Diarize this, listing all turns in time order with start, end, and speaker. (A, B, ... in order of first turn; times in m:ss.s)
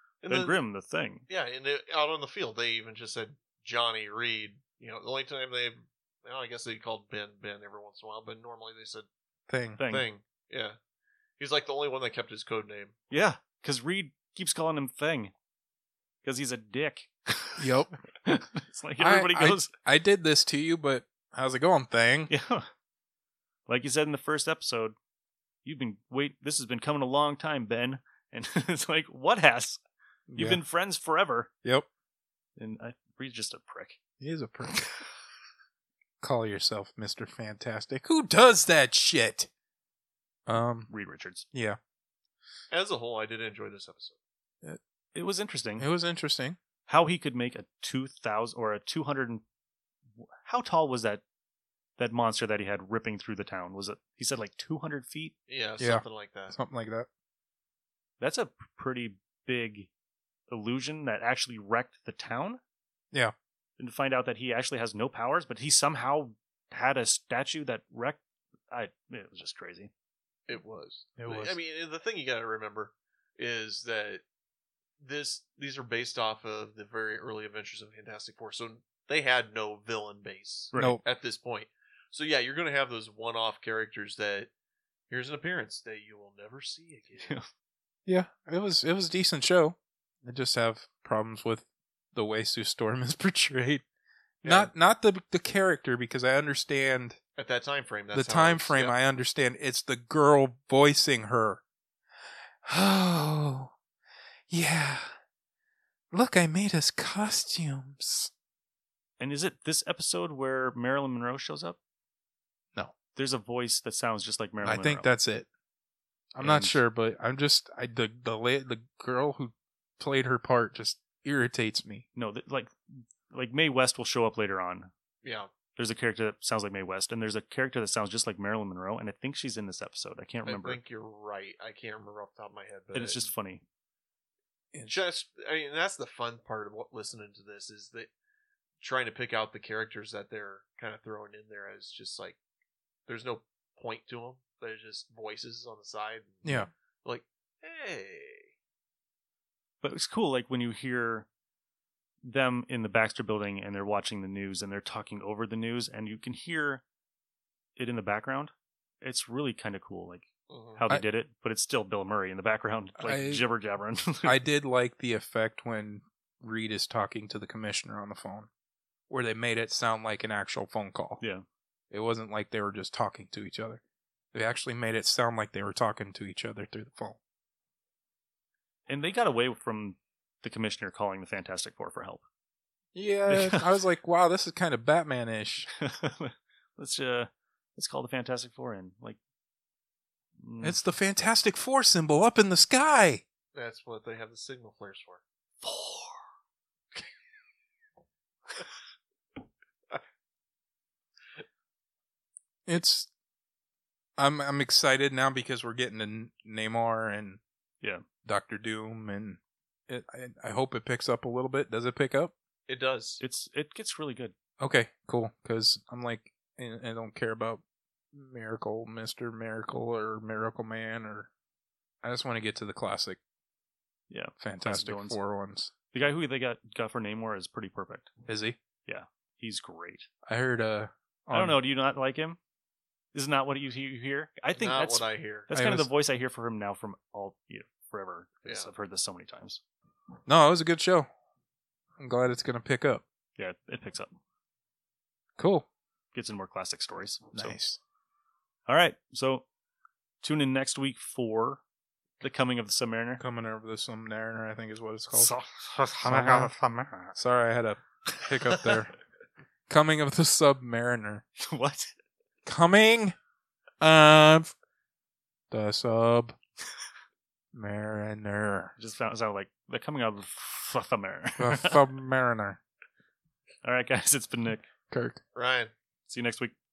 0:00.2-0:00.6 A
0:00.3-0:01.3 B
0:01.3-0:09.1 A
0:09.5-0:09.9 C
0:09.8-0:10.1 B
0:09.8-0:10.8 A
0:11.4-0:13.0 A
0:13.1-0:15.3 B
0:16.2-0:17.7 B
0:17.6-0:17.9 C
0:18.3-0:19.7 B
0:19.0-0:22.3 C
0:22.3-0:22.7 B
0:23.7-0:25.0 B
0:25.6-0:29.8 B
0:30.3-0:30.6 C
0:30.4-0:31.5 B
0:32.6-0:34.0 B
0:34.2-0:34.9 C
0:36.2-0:39.5 C
0:40.5-0:40.9 C
0:40.9-0:41.5 B
0:41.5-0:41.8 C
0:42.7-0:44.2 A
0:45.1-0:45.9 B
0:45.8-0:46.6 C
0:46.9-0:49.4 B
0:50.4-0:51.2 B
0:52.0-0:55.4 B
0:55.5-0:56.6 A
0:55.8-0:57.1 C
0:58.2-0:59.9 B
1:00.5-1:02.6 B
1:03.8-1:09.9 B
1:10.5-1:14.2 A
1:11.2-1:11.6 C
1:15.0-1:24.5 A
1:20.7-1:21.0 B
1:20.7-1:21.0 C
1:25.1-1:27.4 A
1:27.2-1:27.5 B
1:28.1-1:33.8 C
1:34.4-1:37.2 C
1:34.4-1:34.7 A
1:37.4-1:39.0 A
1:38.1-1:41.6 C
1:42.7-1:43.7 C
1:44.5-1:45.1 C
1:46.1-1:48.3 C
1:49.2-1:51.8 B
1:53.1-1:55.1 B
1:54.6-1:55.5 C
1:56.4-2:02.0 C
1:56.4-1:56.8 B
2:02.2-2:02.7 B
2:03.3-2:04.9 B
2:05.2-2:05.5 A
2:05.7-2:10.8 B
2:10.4-2:13.3 A
2:12.9-2:13.6 B
2:14.7-2:15.0 C
2:14.8-2:18.1 A
2:18.8-2:22.4 A
2:23.1-2:28.5 A
2:26.4-2:26.7 C
2:29.8-2:31.3 B
2:32.2-2:36.8 B
2:37.8-2:44.4 B
2:40.5-2:40.8 A
2:43.0-2:43.4 C
2:44.2-2:48.5 C
2:49.1-2:51.2 C
2:51.2-2:51.4 B
2:51.9-2:53.8 C
2:54.3-2:57.2 C
2:58.9-3:02.2 B
3:03.0-3:05.7 C
3:03.3-3:03.8 B
3:05.7-3:09.2 B
3:10.4-3:10.8 B
3:10.6-3:13.2 C
3:13.6-3:15.2 A
3:15.6-3:16.2 B
3:22.7-3:23.1 C
3:24.2-3:27.4 C
3:28.3-3:32.3 C
3:32.7-3:33.2 A
3:33.2-3:34.3 B
3:34.6-3:37.6 C
3:38.1-3:41.3 C
3:42.0-3:43.2 C
3:44.1-3:45.2 B
3:44.4-3:45.8 C
3:45.8-3:48.1 B
3:48.3-3:48.6 C
3:48.9-3:50.1 B
3:50.3-3:51.6 C
3:51.3-3:52.4 B
3:53.1-3:59.6 B
3:54.6-3:55.5 A
3:55.5-3:55.9 C
3:58.4-3:58.7 A
4:00.3-4:01.1 C
4:02.0-4:03.0 C
4:03.4-4:04.1 B
4:05.4-4:05.7 C
4:06.1-4:07.6 B
4:07.3-4:07.8 C
4:08.7-4:09.4 B
4:10.2-4:11.6 B
4:12.2-4:13.2 B
4:13.2-4:15.3 C
4:15.1-4:17.1 B
4:16.0-4:16.6 C
4:17.2-4:18.9 C
4:18.1-4:18.8 B
4:19.7-4:21.2 C
4:21.4-4:21.9 B
4:22.5-4:23.2 C
4:23.8-4:24.5 C
4:25.5-4:26.4 C
4:27.5-4:28.7 C
4:28.8-4:31.9 B
4:31.4-4:32.6 C
4:33.6-4:34.7 B
4:34.9-4:35.2 C
4:35.3-4:35.7 A
4:36.1-4:36.5 B